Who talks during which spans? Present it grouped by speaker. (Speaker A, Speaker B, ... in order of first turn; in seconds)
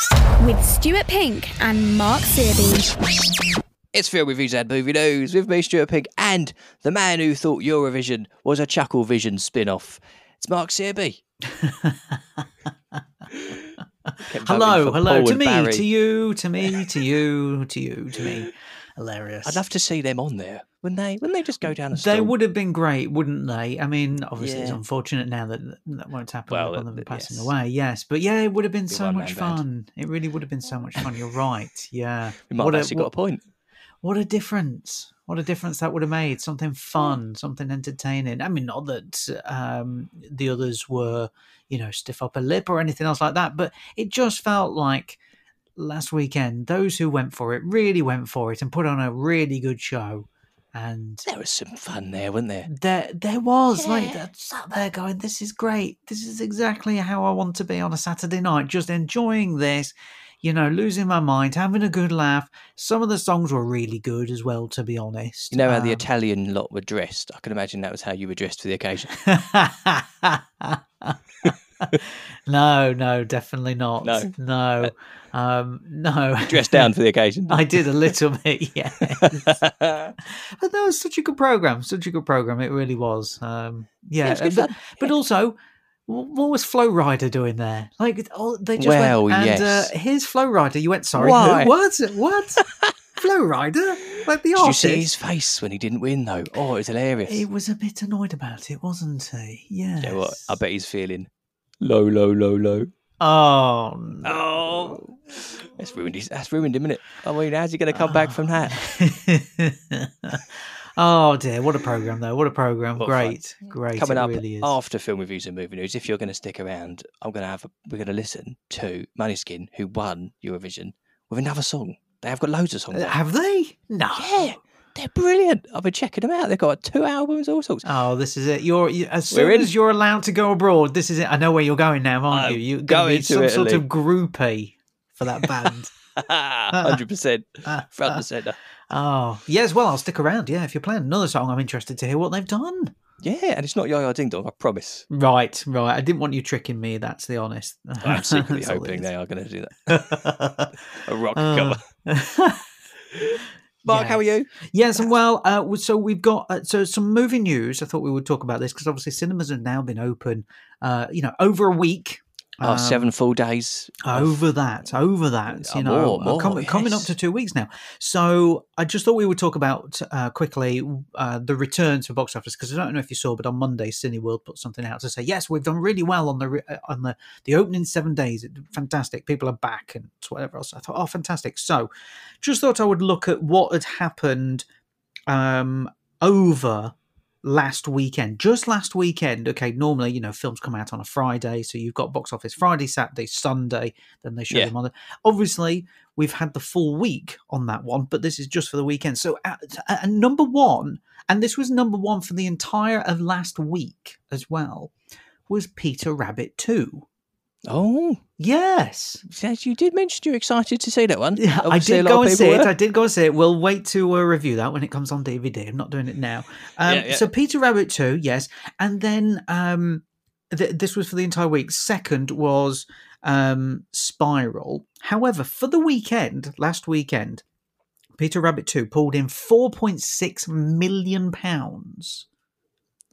Speaker A: 0.4-2.9
Speaker B: 3.9-11.2, 13.3-13.6, 14.2-15.9, 19.4-22.3, 24.4-24.8, 26.5-27.5, 28.9-29.6, 32.5-33.4, 51.2-52.7, 53.8-54.2, 65.5-69.2, 71.4-72.0, 74.0-74.9, 76.5-78.1, 79.1-80.2, 84.2-85.1, 88.8-89.9, 91.2-91.7, 92.6-92.9, 94.1-97.5, 100.0-101.3, 101.8-102.9, 104.2-108.8, 113.0-123.2, 124.2-127.8, 129.3-129.7, 132.3-133.8, 135.4-138.6, 143.2-145.1, 148.0-150.3, 151.0-151.8, 153.8-154.5, 162.6-164.4, 165.5-167.1, 207.7-208.2, 209.3-212.7, 216.8-217.3
Speaker C: 11.5-13.0, 14.1-19.6, 21.9-33.1, 34.0-45.2, 45.8-51.2, 52.7-66.0, 69.1-71.5, 72.1-76.9, 77.5-79.6, 80.2-92.6, 93.2-95.1, 97.2-100.6, 103.2-105.0, 108.0-114.7, 122.9-124.6, 127.8-135.9, 136.7-137.0, 137.6-138.2, 138.9-142.9, 145.1-149.1, 149.9-150.8, 151.3-152.7, 153.8-163.1, 164.0-181.9, 182.4-184.6, 185.3-204.9, 205.5-207.1, 208.4-209.2, 211.4-227.4, 228.2-232.2